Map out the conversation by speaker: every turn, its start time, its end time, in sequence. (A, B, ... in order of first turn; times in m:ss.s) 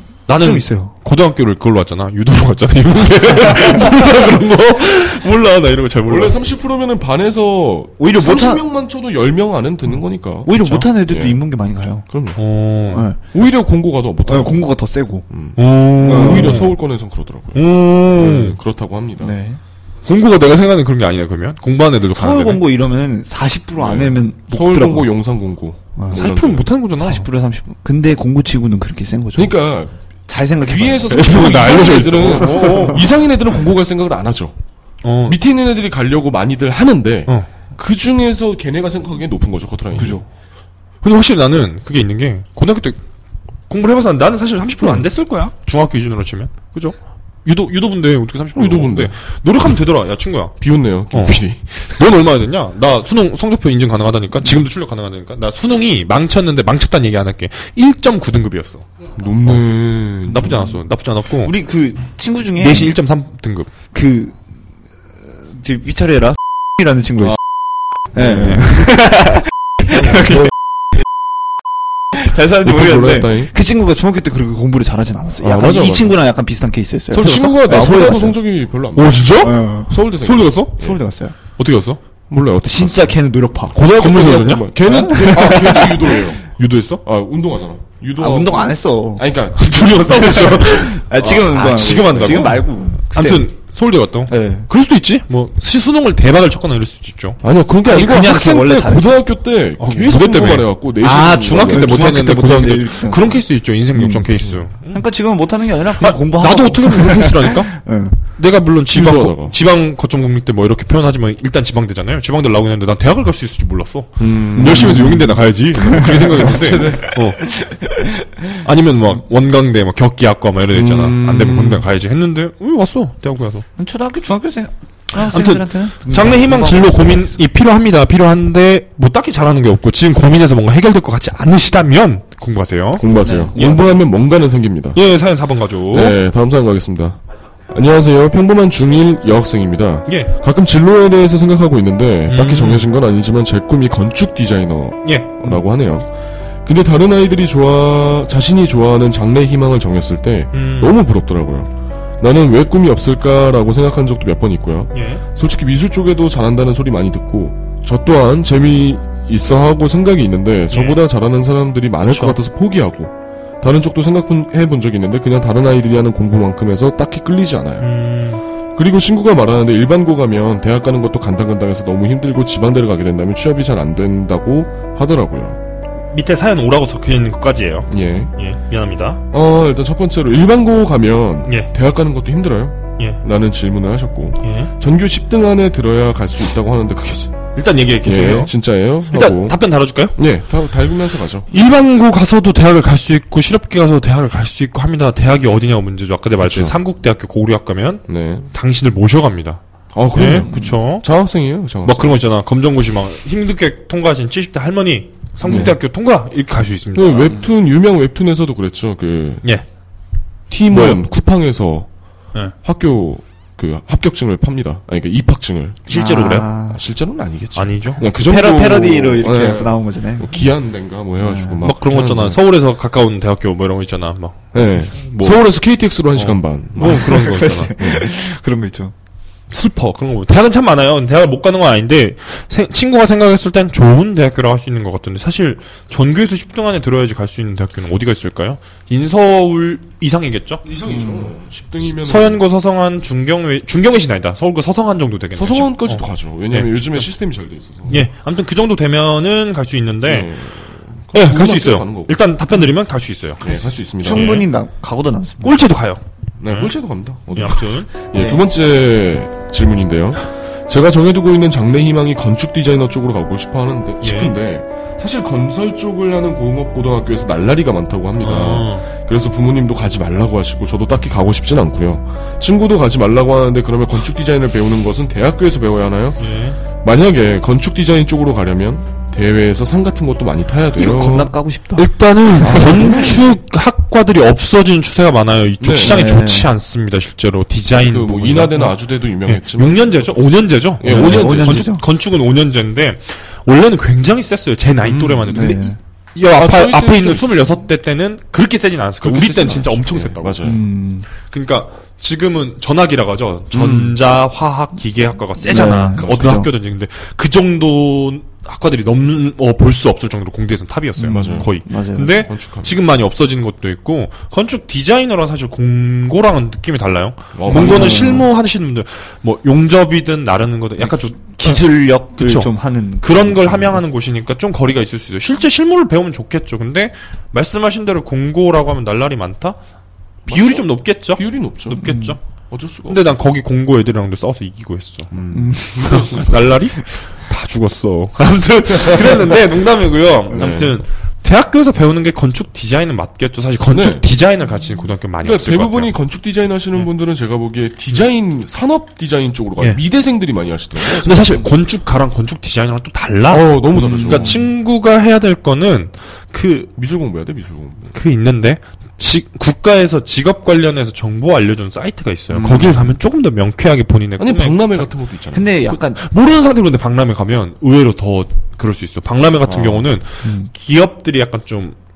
0:00.3-0:06.4 A
0:00.4-0:00.9 B
0:06.1-0:10.5 C
0:08.0-0:08.6 B
0:10.4-0:12.1 B
0:10.5-0:10.9 A
0:11.0-0:11.4 C
0:12.1-0:12.4 C
0:12.4-0:13.1 A
0:12.9-0:13.2 B
0:13.3-0:14.7 C
0:14.3-0:15.3 B
0:15.3-0:19.3 C
0:15.6-0:16.7 A
0:16.0-0:16.6 B
0:17.5-0:18.6 A
0:19.2-0:19.6 B
0:20.0-0:22.6 A
0:22.1-0:25.1 B
0:23.8-0:26.7 C
0:26.1-0:27.3 A
0:27.0-0:29.6 B
0:29.4-0:30.0 C
0:30.3-0:33.0 B
0:30.6-0:34.6 C
0:31.1-0:33.0 A
0:35.0-0:35.4 A
0:35.2-0:40.2 C
0:41.0-0:43.0 A
0:43.7-0:50.6 A
0:44.8-0:45.1 C
0:48.5-0:49.2 C
0:50.6-0:52.1 C
0:51.1-0:58.8 A
0:59.1-1:00.8 C
1:00.3-1:01.5 A
1:00.3-1:00.8 B
1:01.4-1:03.0 B
1:02.6-1:03.7 A
1:03.9-1:04.4 B
1:05.4-1:07.4 B
1:08.1-1:10.5 B
1:08.2-1:08.7 A
1:12.1-1:18.4 B
1:12.6-1:13.5 C
1:15.4-1:16.2 C
1:17.1-1:21.0 C
1:18.9-1:20.8 A
1:19.4-1:19.9 B
1:20.8-1:21.4 B
1:21.5-1:22.0 A
1:22.3-1:23.2 C
1:22.6-1:23.8 B
1:23.7-1:25.2 A
1:23.9-1:26.5 C
1:24.9-1:26.2 B
1:26.6-1:27.0 A
1:27.0-1:32.6 C
1:28.2-1:29.3 B
1:29.6-1:37.4 A
1:30.7-1:33.5 B
1:34.3-1:34.7 B
1:37.4-1:42.1 C
1:37.8-1:39.2 B
1:39.8-1:45.0 A
1:41.5-1:44.3 B
1:44.9-1:48.2 B
1:46.0-1:47.7 A
1:48.3-1:57.6 A
1:48.9-1:49.6 C
1:54.2-1:57.2 C
1:54.6-1:56.5 B
1:57.1-1:58.3 B
1:58.6-2:03.6 A
2:00.7-2:01.8 C
2:03.8-2:07.4 B
2:05.2-2:13.9 A
2:13.0-2:15.0 C
2:13.2-2:13.6 B
2:14.9-2:16.2 A
2:15.9-2:26.1 C
2:20.1-2:20.4 A
2:22.3-2:22.9 A
2:25.0-2:25.6 A
2:26.6-2:47.9 C
2:30.5-2:31.0 A
2:34.9-2:35.2 A
2:40.7-2:41.0 A
2:42.1-2:42.4 A
2:47.8-2:48.4 A
2:48.8-2:55.6 C
2:56.1-2:59.2 A
2:57.9-2:58.3 C
2:59.3-3:07.5 C
3:01.4-3:01.7 A
3:04.4-3:04.7 A
3:07.5-3:08.5 A
3:08.0-3:11.5 C
3:09.1-3:10.2 A
3:11.5-3:21.1 A
3:16.4-3:16.8 C
3:18.1-3:18.5 C
3:19.9-3:22.2 C
3:20.4-3:20.8 B
3:21.8-3:27.4 A
3:25.4-3:25.8 C
3:25.4-3:25.7 B
3:26.9-3:29.5 C
3:30.5-3:31.9 C
3:30.7-3:31.0 A
3:32.6-3:35.9 C
3:35.9-3:36.8 B
3:35.9-3:36.5 A
3:36.7-3:42.4 C
3:37.6-3:38.1 A
3:38.0-3:40.3 B
3:41.2-3:41.6 B
3:41.6-3:45.5 A
3:44.5-3:48.1 C
3:46.1-3:47.8 A
3:46.8-3:48.9 B
3:49.5-4:00.7 A
4:00.6-4:02.4 C
4:01.8-4:07.1 A
4:05.4-4:08.1 C
4:07.9-4:10.3 A
4:10.0-4:12.2 C
4:11.1-4:14.5 A
4:13.4-4:14.4 C
4:14.0-4:15.6 B
4:15.4-4:16.7 A
4:16.4-4:36.2 C
4:17.3-4:17.9 A
4:18.1-4:18.4 B
4:24.0-4:24.4 A
4:28.2-4:28.9 A
4:36.2-4:36.6 A
4:36.8-4:41.3 C
4:40.8-4:41.9 B
4:41.8-5:00.5 A
4:42.4-4:43.3 C
4:45.6-4:46.0 C
4:45.8-4:46.5 B
4:47.7-4:50.3 C
4:50.8-4:51.7 C
4:50.8-4:51.8 B
4:54.8-4:55.5 C
4:55.3-4:55.8 B
4:56.3-4:57.6 C
4:59.0-5:00.6 C
5:00.4-5:01.1 B
5:01.2-5:29.6 A
5:03.5-5:04.0 C
5:05.4-5:06.5 B
5:05.9-5:06.5 C
5:11.0-5:12.2 B
5:11.0-5:11.5 C
5:12.2-5:12.8 C
5:17.3-5:18.3 C
5:17.5-5:18.3 B
5:20.8-5:23.8 B
5:30.3-5:31.8 C
5:30.3-5:32.2 A
5:31.7-5:32.2 B
5:32.5-5:33.2 C
5:32.9-5:35.2 A
5:35.1-5:36.7 C
5:35.3-5:36.2 B
5:35.8-5:46.0 A
5:38.7-5:39.4 C
5:40.3-5:40.8 C
5:43.7-5:44.1 C
5:45.2-5:51.5 C
5:50.8-5:56.7 A
5:53.3-5:54.5 C
5:53.8-5:54.4 B
5:56.8-5:58.0 C
5:57.9-6:04.9 A
6:02.3-6:03.0 C
6:04.2-6:05.6 C
6:05.3-6:06.0 B
6:05.6-6:11.8 A
6:09.5-6:10.0 C
6:10.2-6:10.5 B